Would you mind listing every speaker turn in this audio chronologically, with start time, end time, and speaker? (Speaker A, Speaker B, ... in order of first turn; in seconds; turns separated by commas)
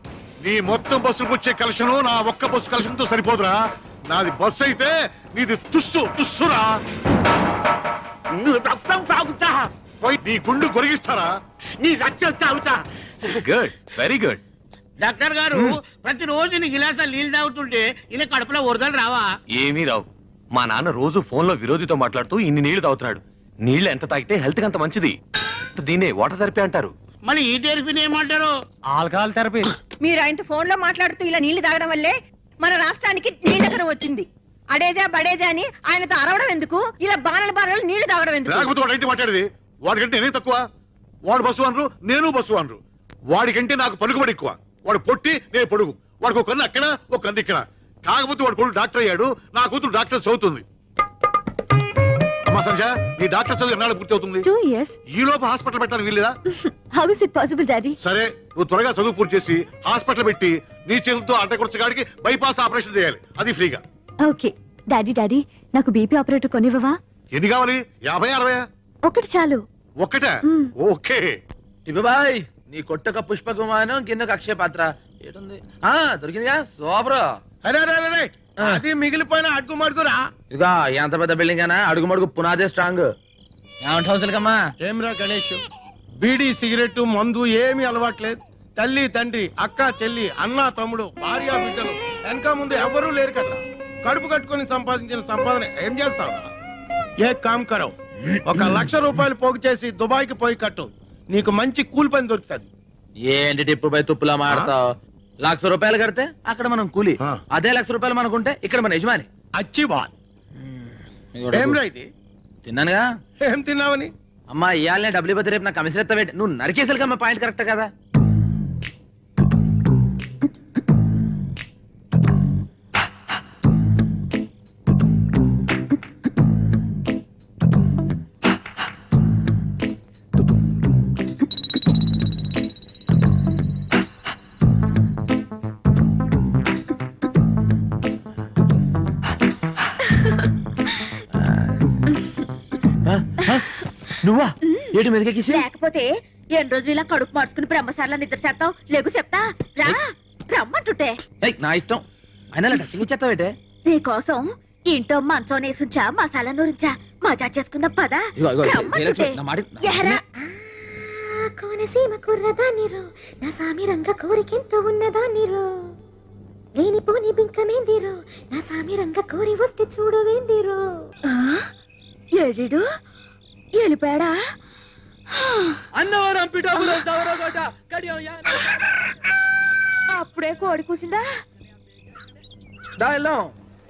Speaker A: 0.4-3.5, Speaker A: 4.1-6.7, Speaker B: 8.5-9.5, Speaker A: 10.0-11.3, Speaker B: 11.8-12.7, Speaker C: 13.4-14.4, Speaker B: 15.0-19.2, Speaker C: 19.6-25.1, Speaker C: 25.8-26.9, Speaker B: 27.4-28.5, Speaker D: 30.0-38.7, Speaker A: 38.5-40.6, Speaker A: 41.3-42.8, Speaker A: 43.3-50.6, Speaker A: 52.5-54.5, Speaker E: 54.4-55.0, Speaker A: 55.1-56.4, Speaker E: 56.7-58.0, Speaker A: 58.0-63.8, Speaker E: 64.2-67.0, Speaker A: 67.3-68.6, Speaker E: 69.1-69.6, Speaker A: 70.0-71.4, Speaker E: 70.5-70.7, Speaker F: 71.9-77.3, Speaker G: 77.6-80.2, Speaker F: 80.5-83.1, Speaker F: 83.8-84.7, Speaker G: 84.8-85.6, Speaker G: 86.2-96.5, Speaker G: 97.2-102.7, Speaker F: 103.3-104.9, Speaker F: 105.4-109.3, Speaker G: 109.6-110.1, Speaker F: 111.4-111.8, Speaker G: 111.5-112.1, Speaker F: 112.7-113.1, Speaker G: 113.4-114.1, Speaker F: 114.5-117.9, Speaker F: 141.4-141.8, Speaker F: 143.1-143.7, Speaker F: 144.2-145.6, Speaker H: 145.5-151.2, Speaker F: 151.4-153.6, Speaker H: 153.9-160.2, Speaker F: 158.4-160.2, Speaker I: 160.5-165.7, Speaker I: 166.8-170.8, Speaker H: 171.3-171.7, Speaker H: 172.4-172.8, Speaker H: 173.7-174.4, Speaker F: 175.9-178.7, Speaker H: 180.1-181.2, Speaker F: 183.0-183.5